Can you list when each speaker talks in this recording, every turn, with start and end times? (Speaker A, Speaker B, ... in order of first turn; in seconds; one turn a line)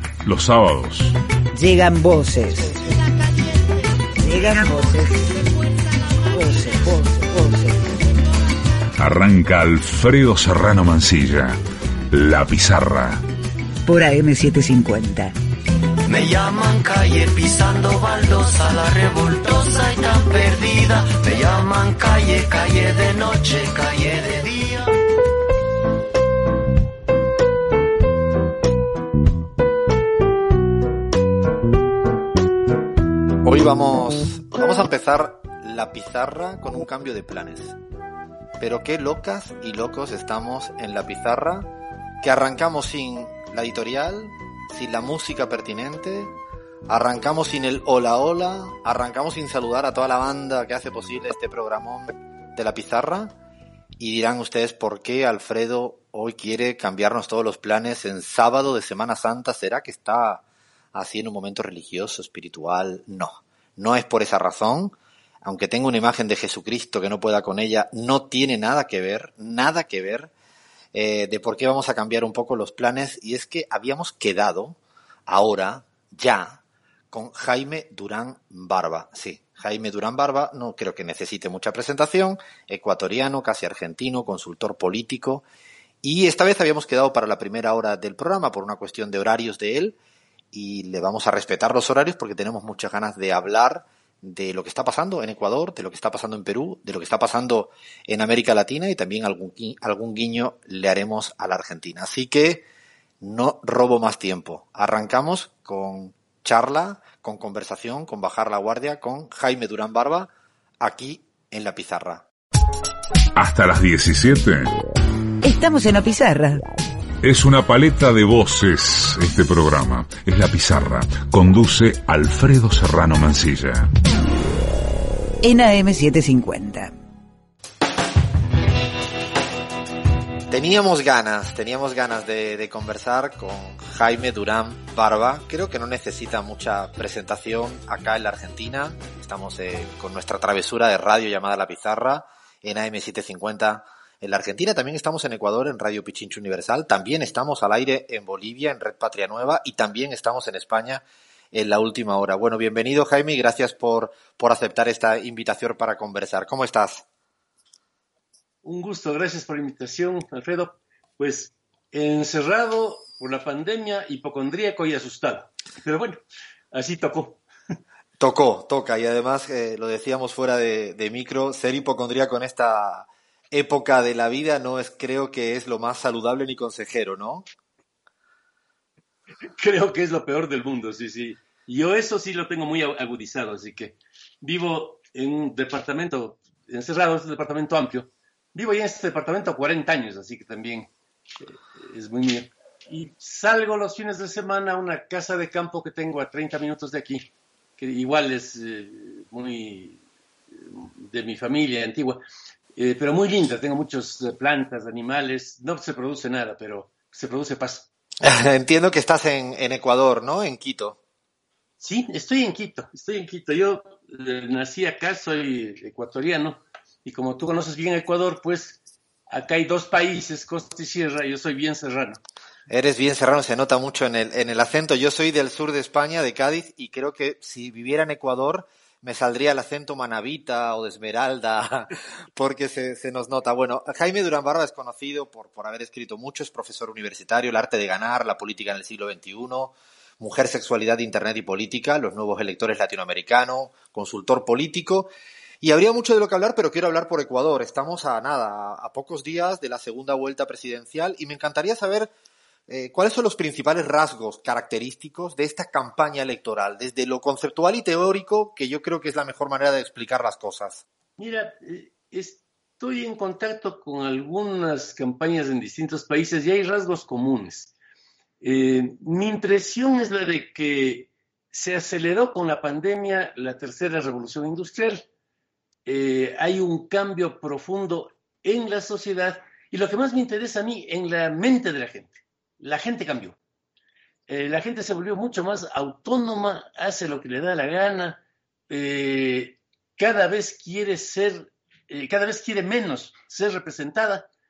Speaker A: 0.2-1.1
Speaker B: 1.6-2.8
Speaker B: 4.2-5.3
Speaker B: 6.3-7.8
Speaker A: 9.0-11.6
Speaker A: 12.1-13.2
Speaker B: 13.9-15.3
Speaker C: 16.1-24.9
Speaker D: 33.4-37.8
Speaker D: 38.6-41.7
Speaker D: 42.2-46.3
Speaker D: 46.9-53.3
Speaker D: 54.0-60.4
Speaker D: 60.9-70.3
Speaker D: 70.9-76.6
Speaker D: 77.1-85.5
Speaker D: 86.0-90.0
Speaker D: 90.5-102.7
Speaker D: 103.2-112.3
Speaker A: 113.4-114.7
Speaker B: 115.4-116.6
Speaker A: 117.2-123.9
Speaker B: 125.4-126.9
Speaker D: 130.5-157.1
Speaker E: 158.6-166.2
Speaker E: 166.7-167.4
Speaker D: 168.2-177.5
Speaker E: 179.5-200.0
Speaker E: 200.5-202.2
Speaker E: 202.8-207.9
Speaker D: 208.2-211.0
Speaker E: 211.8-222.2
Speaker D: 222.7-245.1
Speaker D: 245.6-252.1
Speaker D: 252.7-260.8
Speaker E: 261.2-267.7
Speaker E: 268.4-275.1
Speaker E: 275.9-283.4
Speaker E: 284.3-294.3